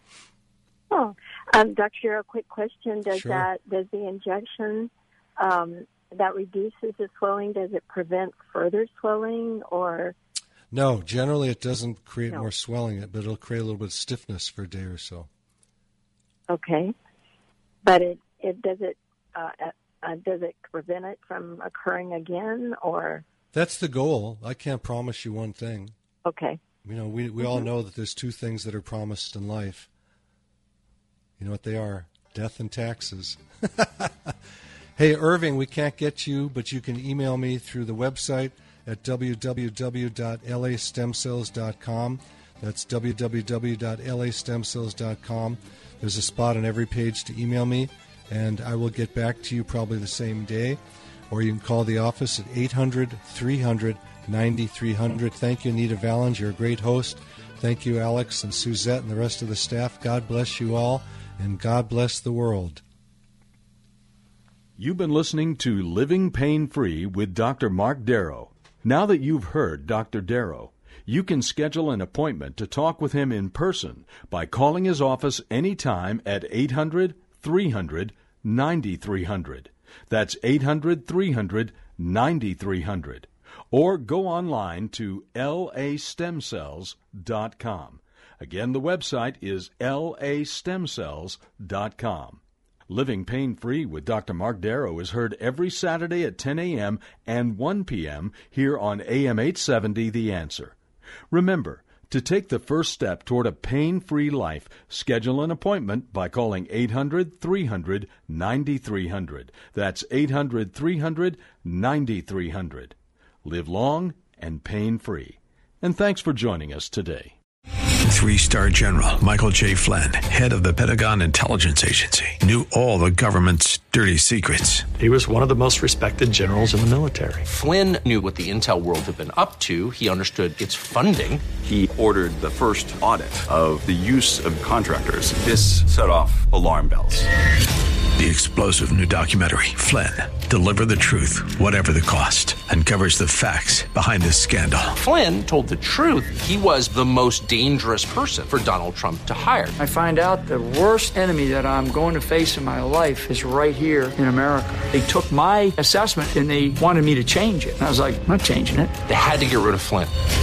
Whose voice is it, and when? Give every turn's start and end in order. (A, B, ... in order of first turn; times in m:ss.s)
0:00.9-0:10.1 A
0:03.1-0:03.5 B
0:10.7-0:15.3 B
0:16.5-0:16.9 A
0:17.8-0:23.2 A
0:23.5-0:25.9 B
0:26.2-0:26.6 A
0:26.8-0:29.9 B
0:27.4-0:27.7 A
0:31.4-0:34.4 B
0:35.0-1:02.8 B
1:04.8-1:40.8 C
1:41.3-1:57.4 C
1:58.0-2:04.9 D
2:05.0-2:07.4 E
2:07.4-2:11.5 F
2:11.6-2:17.3 G
2:18.2-2:25.0 D
2:25.0-2:29.7 F
2:29.8-2:39.0 H
2:39.0-2:40.1 F